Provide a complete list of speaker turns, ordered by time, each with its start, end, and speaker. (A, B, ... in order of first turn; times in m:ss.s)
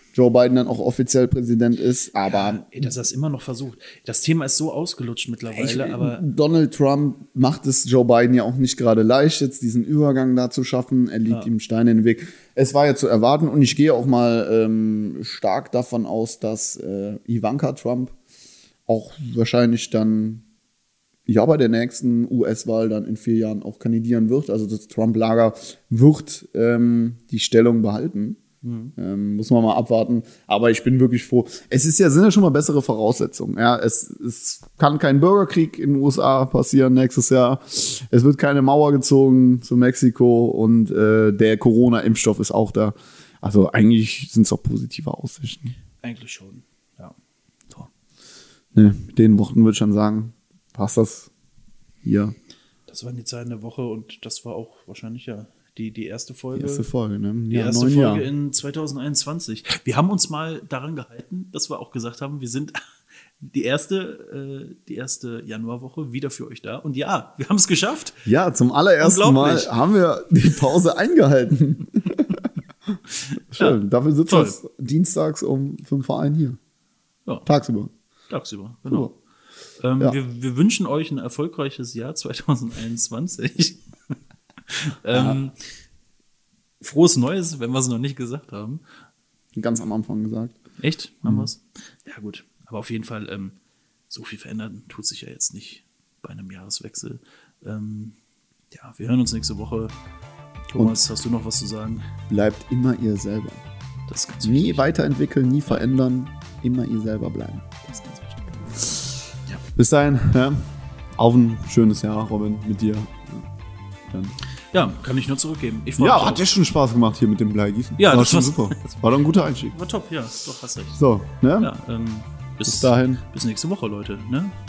0:00.1-0:02.6 A
0:02.2-0:06.2 B
0:05.5-0:18.2 A
0:18.9-0:20.4 A
0:21.2-0:28.4 A
0:28.6-0:28.9 B
0:29.0-0:45.7 A
0:46.0-0:47.1 B
0:48.7-0:51.3 A
0:52.0-0:52.3 A
0:52.9-0:56.9 B
0:56.5-0:58.3 A
0:57.5-1:02.8 B
1:03.4-1:08.2 B
1:08.2-1:12.4 A
1:09.0-1:09.7 B
1:13.3-1:14.6 B
1:13.5-1:16.6 A
1:17.4-1:17.9 A
1:18.3-1:19.1 B
1:18.9-1:19.1 A
1:19.8-1:23.8 B
1:24.7-1:25.5 B
1:25.1-1:25.4 A
1:26.8-1:28.8 B
1:29.6-1:30.6 A
1:30.8-1:33.6 B
1:34.1-1:38.2 B
1:38.7-1:39.9 B
1:40.7-1:42.1 B
1:42.3-1:43.6 A
1:44.1-1:44.9 B
1:44.4-1:48.9 A
1:48.1-1:48.3 B
1:49.7-1:50.6 A
1:51.2-1:53.5 A
1:54.1-1:54.3 A
1:54.7-1:56.5 B
1:56.0-1:59.7 A
1:58.0-1:59.0 B
1:59.7-2:01.0 B
2:01.0-2:01.7 A
2:01.6-2:04.6 B
2:02.6-2:03.2 A